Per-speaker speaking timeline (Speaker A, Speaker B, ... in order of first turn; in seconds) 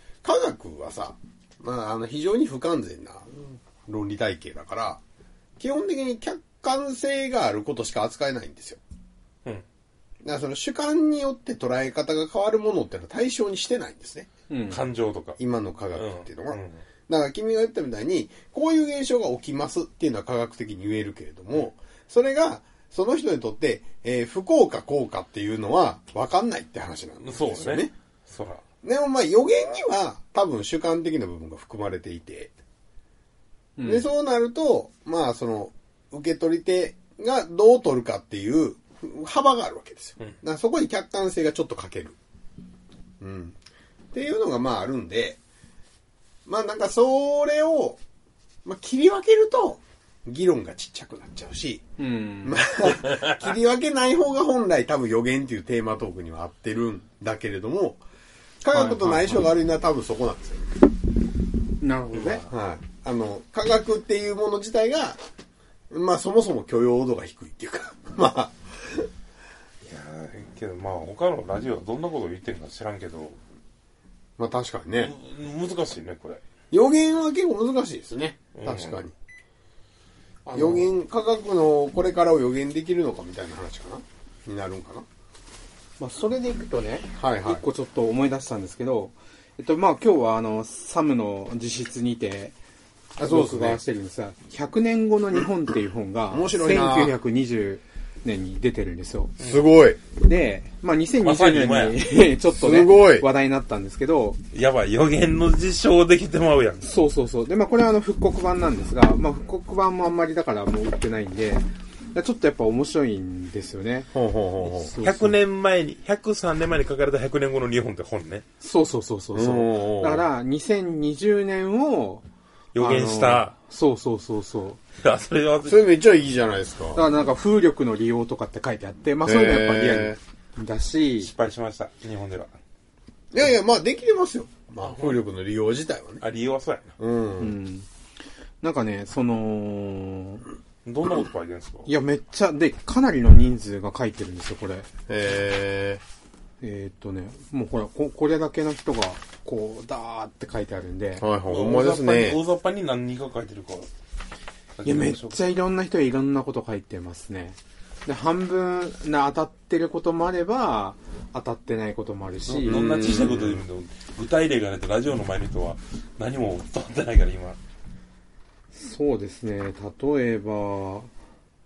Speaker A: 0.2-5.0, 5.6-8.8, 10.2-14.3, 15.4-27.9, 28.8-32.5, 33.8-42.2, 43.2-43.6, 44.1-45.4, 46.5-48.0, 48.6-51.9, 52.4-58.0, 58.6-60.9, 62.5-65.2, 65.9-69.1, 74.4-75.1, 76.7-79.1, 80.5-85.1, 87.2-87.6, 93.2-93.8, 96.3-97.2, 99.4-100.0, 102.5-103.3, 114.1-114.9, 119.3-120.2, 125.7-127.0, 129.2-130.2, 133.3-136.2, 137.0-137.6, 145.1-146.0, 151.2-152.4, 162.7-163.6
Speaker B: 14.5-14.8, 33.8-34.1, 52.0-52.7, 58.7-59.4, 61.8-62.4, 80.5-80.8, 86.0-92.5, 93.2-99.4, 100.1-104.4, 106.8-115.4, 118.6-122.3, 122.8-124.8, 127.0-131.3, 137.4-137.9, 138.6-140.4, 141.9-144.9, 146.6-151.3, 154.8-163.1, 168.7-171.1
Speaker C: 14.7-15.4, 15.9-16.8, 27.2-28.6, 62.1-62.5, 69.8-73.4, 75.0-76.4, 78.5-79.0, 99.4-99.7, 101.2-102.0, 104.5-106.9, 115.0-118.5, 122.8-123.5, 125.0-125.9, 131.2-132.5, 134.9-135.2, 136.2-136.9, 140.8-141.9, 151.5-153.9, 154.8-155.4, 162.5-167.6